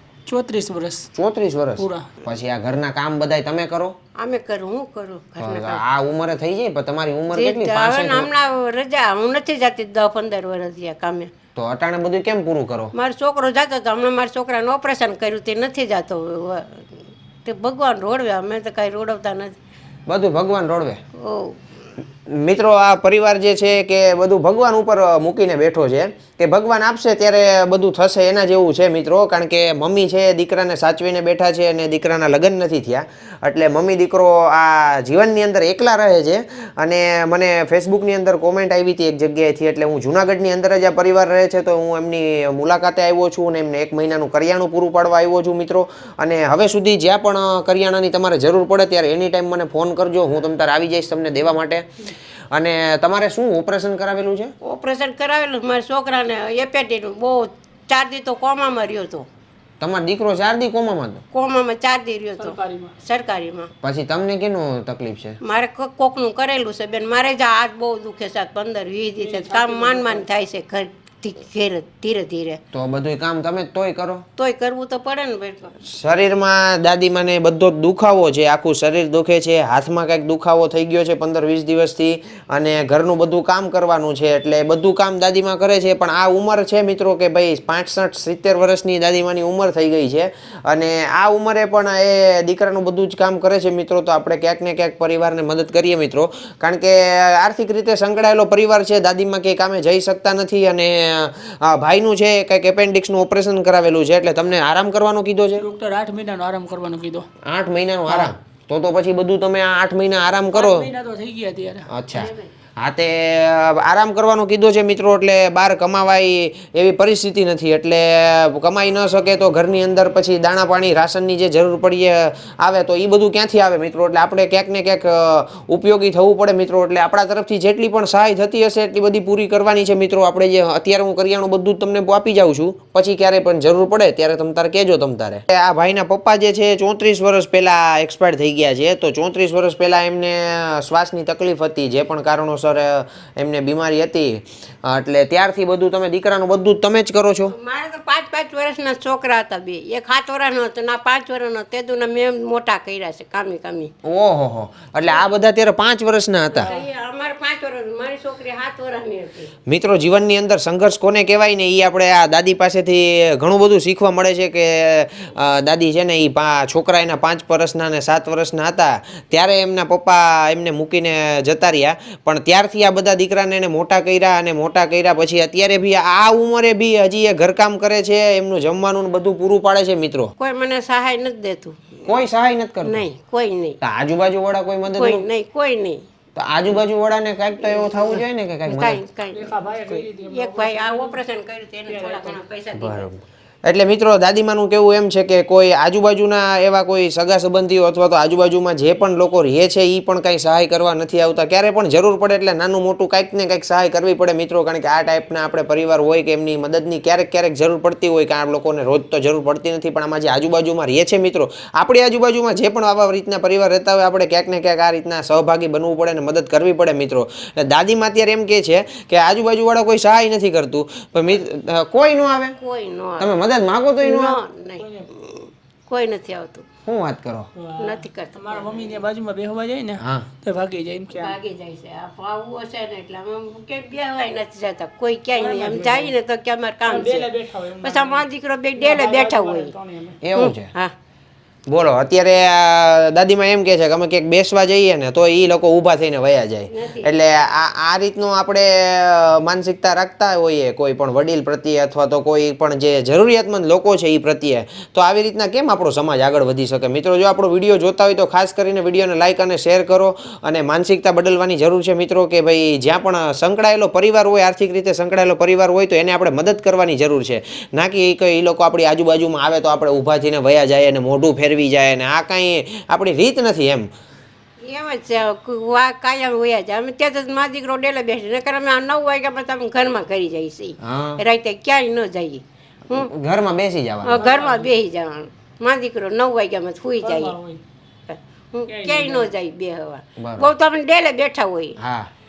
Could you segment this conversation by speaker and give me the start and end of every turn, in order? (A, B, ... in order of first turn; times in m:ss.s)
0:00.2-0:01.1 A
0:01.1-0:03.9 B
0:01.8-0:02.1 A
0:04.2-0:05.8 C
0:05.4-0:08.3 B
0:07.3-0:11.3 C
0:11.6-0:12.9 B
0:12.9-0:19.5 C
0:20.1-0:21.0 B
0:21.1-0:21.6 C
0:22.2-0:51.9 B
0:52.5-0:54.5 B
0:54.6-0:59.3 C
0:59.8-1:01.2 B
1:01.3-1:03.7 C
1:02.4-1:02.9 A
1:03.8-1:05.4 B
1:05.4-1:12.6 C
1:09.2-1:10.2 A
1:12.7-1:14.2 B
1:14.4-1:15.8 C
1:15.8-1:45.6 B
1:45.6-1:47.2 A
1:47.4-1:50.9 B
1:50.5-1:51.9 A
1:51.9-2:27.5 B
1:52.1-1:52.5 C
2:27.5-2:33.9 C
2:34.0-2:36.7 B
2:36.5-2:39.5 C
2:36.6-2:36.9 A
2:39.7-3:00.3 B
3:00.4-3:02.1 C
3:02.0-3:03.0 B
3:02.8-3:03.8 C
3:03.8-3:05.2 B
3:04.9-3:06.0 C
3:06.3-3:09.0 B
3:07.6-3:13.1 C
3:09.3-3:11.2 A
3:11.9-3:12.4 A
3:12.7-3:42.6 B
3:42.6-3:43.3 C
3:43.2-3:44.4 B
3:44.0-3:46.6 C
3:44.8-3:45.1 A
3:46.8-3:47.5 B
3:47.6-3:51.4 A
3:47.8-3:48.9 C
3:50.0-3:50.3 B
3:51.1-3:57.3 C
3:55.3-3:56.1 A
3:56.9-3:58.2 A
3:57.8-3:59.7 C
3:58.8-4:00.2 A
4:00.2-4:00.7 B
4:00.4-4:00.9 C
4:01.7-4:33.9 B
4:06.7-4:07.1 C
4:34.6-4:43.1 C
4:40.8-4:41.2 B
4:42.9-4:44.2 B
4:44.0-4:47.4 C
4:44.1-4:44.7 A
4:47.0-4:47.6 A
4:48.1-4:51.8 C
4:48.7-4:49.3 A
4:50.2-4:50.5 B
4:51.8-4:52.1 B